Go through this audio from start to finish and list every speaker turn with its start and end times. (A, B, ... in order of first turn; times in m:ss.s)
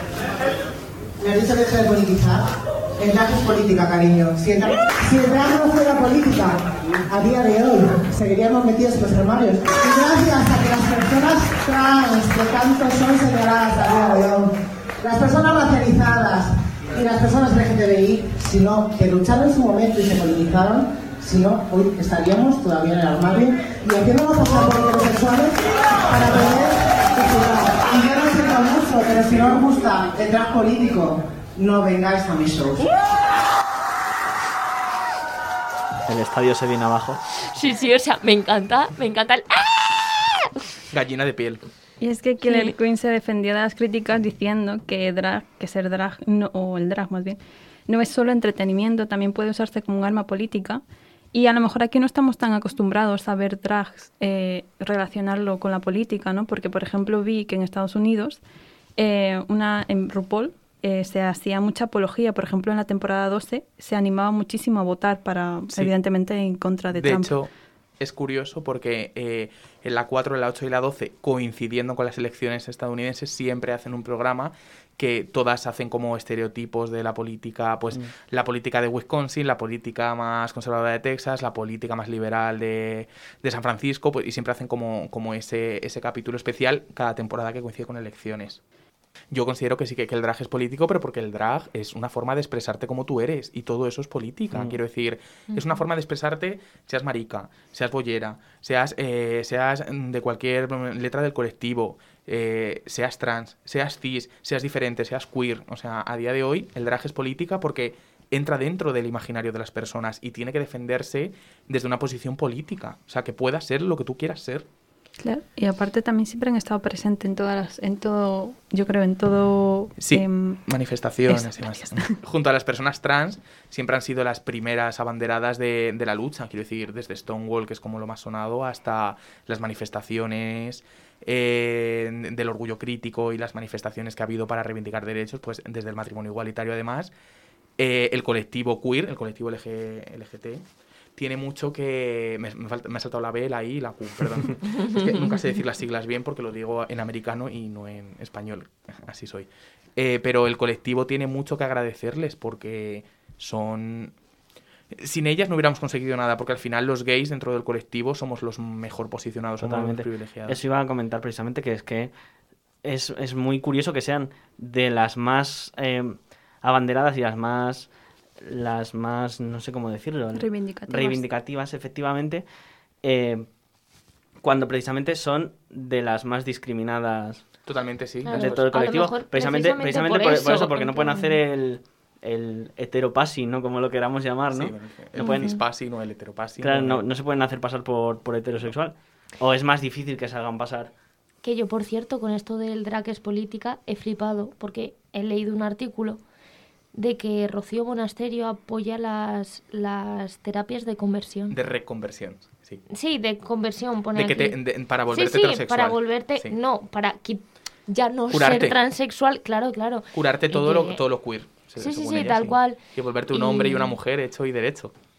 0:01.2-0:02.4 A
0:03.0-0:14.5 A
0:15.0-0:32.9 A
0:36.1-0:37.2 B
0:37.5-0:40.4 C
0:40.9-0:41.6 D
0:42.0-0:50.8 E
0:42.4-0:42.7 C
0:51.3-0:58.4 E
0:59.0-1:07.4 E
1:06.9-1:28.6 D
1:29.3-1:54.6 D
1:55.2-2:00.6 E
2:00.0-2:17.1 D
2:01.3-2:02.1 E
2:17.8-2:20.6 D
2:21.2-2:34.1 D
2:34.9-2:40.6 D
2:39.6-2:42.1 B
2:42.8-2:47.9 B
2:48.4-2:52.4 B
2:50.3-2:51.2 E
2:53.0-2:53.5 B
2:54.4-2:57.4 B
2:57.6-2:58.6 D
2:58.3-3:01.4 C
2:58.3-3:05.4 B
3:04.5-3:07.0 D
3:05.2-3:05.6 C
3:06.6-3:10.9 B
3:11.4-3:16.2 C
3:16.9-3:21.6 C
3:21.5-3:22.8 D
3:22.9-3:24.6 C
3:24.1-3:26.5 D
3:25.1-3:31.0 C
3:28.3-3:28.8 D
3:30.1-3:34.9 D
3:31.8-3:32.8 C
3:33.3-3:34.0 C